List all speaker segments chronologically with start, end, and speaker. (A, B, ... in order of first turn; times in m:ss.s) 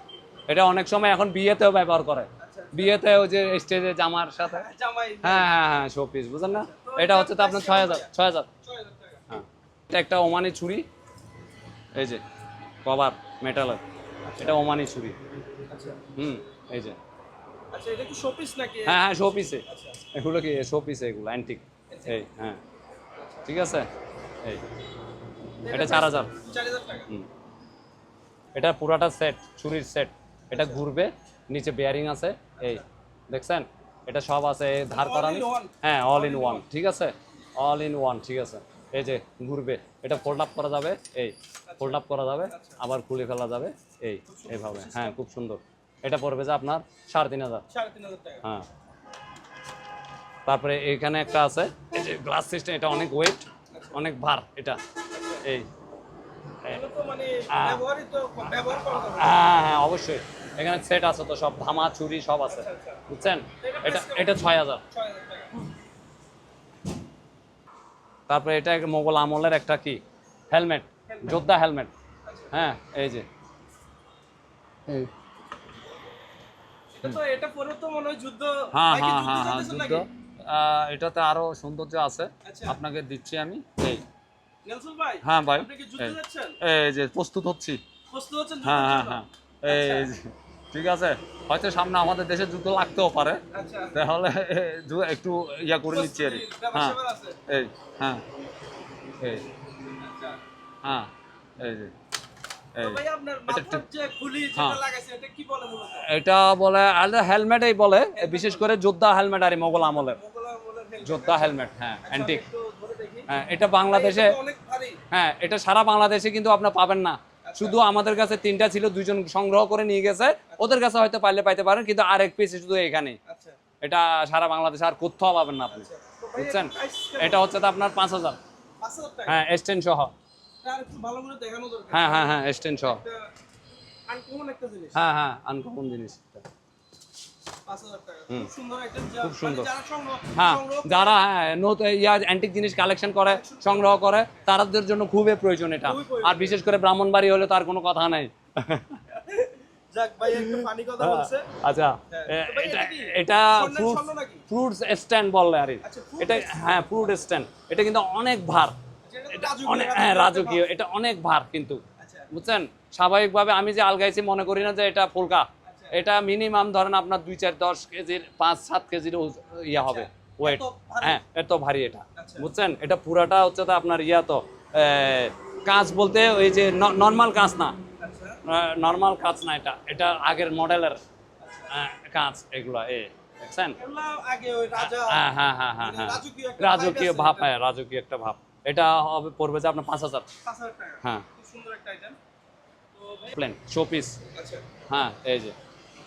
0:00.5-0:04.7 A
0:02.4-0:03.1 B
0:04.4-0:05.6 B
0:05.2-0:08.5 A
0:06.5-0:09.2 B
0:09.3-0:10.9 A
0:12.0-0:12.2 A
0:12.8-0:13.8 A
0:14.2-0:14.6 B
0:14.4-0:15.2 A
0:15.7-0:16.0 B
0:16.1-0:17.0 A
0:17.7-0:19.0 B
0:18.8-0:22.6 A
0:19.6-0:20.0 B
0:21.9-0:22.2 B
0:23.2-0:23.5 B
0:23.5-0:23.9 A
0:25.6-0:27.1 B
0:25.7-0:26.3 A
0:28.6-0:47.6 A
0:30.5-0:30.8 B
0:32.6-0:32.8 B
0:34.9-0:36.6 B
0:41.7-0:42.8 B
0:44.3-0:45.2 B
0:47.7-0:48.4 B
0:50.5-0:54.8 A
0:53.7-0:54.0 B
0:55.1-0:55.4 B
0:55.4-0:55.7 A
0:56.7-0:59.4 B
0:57.5-0:57.8 A
0:58.9-1:04.8 A
1:02.5-1:03.0 B
1:03.6-1:05.5 B
1:08.3-1:11.9 A
1:11.1-1:11.4 B
1:12.2-1:12.5 B
1:12.5-1:13.3 A
1:17.0-1:20.0 B
1:18.7-1:24.0 A
1:22.4-1:22.8 B
1:24.6-1:26.6 B
1:25.2-1:27.8 A
1:28.1-1:30.1 B
1:28.6-1:38.2 A
1:33.5-1:34.0 B
1:35.9-1:37.4 B
1:39.2-1:39.5 A
1:39.9-1:40.4 B
1:40.8-1:41.9 A
1:42.8-1:43.8 A
1:42.8-1:46.1 B
1:44.6-1:44.8 A
1:46.0-1:50.2 A
1:48.2-1:48.7 B
1:49.8-1:53.3 B
1:51.0-1:52.4 A
1:53.3-1:54.4 A
1:53.9-1:55.0 B
1:55.1-2:03.2 A
1:57.4-1:57.8 B
2:00.5-2:00.8 B
2:03.2-2:03.6 B
2:03.8-2:08.4 A
2:05.7-2:07.5 B
2:08.8-2:09.4 B
2:09.2-2:10.1 A
2:10.6-2:13.3 B
2:11.9-2:13.0 A
2:14.1-2:15.0 B
2:15.0-2:16.4 A
2:17.6-2:21.2 B
2:19.2-2:19.7 A
2:20.3-2:29.0 A
2:23.2-2:24.5 B
2:25.8-2:26.6 B
2:29.1-2:31.5 B
2:30.3-2:38.8 A
2:32.1-2:34.4 B
2:35.8-2:36.8 B
2:39.1-2:40.7 B
2:39.3-2:57.8 A
2:42.0-2:42.3 B
2:45.6-2:46.0 B
2:49.8-2:51.2 B
2:52.2-2:52.5 B
2:58.0-2:58.4 B
2:58.4-3:01.0 A
3:01.4-3:01.7 B
3:01.7-3:03.8 A
3:03.8-3:05.2 B
3:04.8-3:10.3 A
3:05.8-3:07.6 B
3:10.4-3:12.2 B
3:12.9-3:13.3 B
3:13.3-3:14.2 A
3:14.3-3:14.6 B
3:14.9-3:15.6 A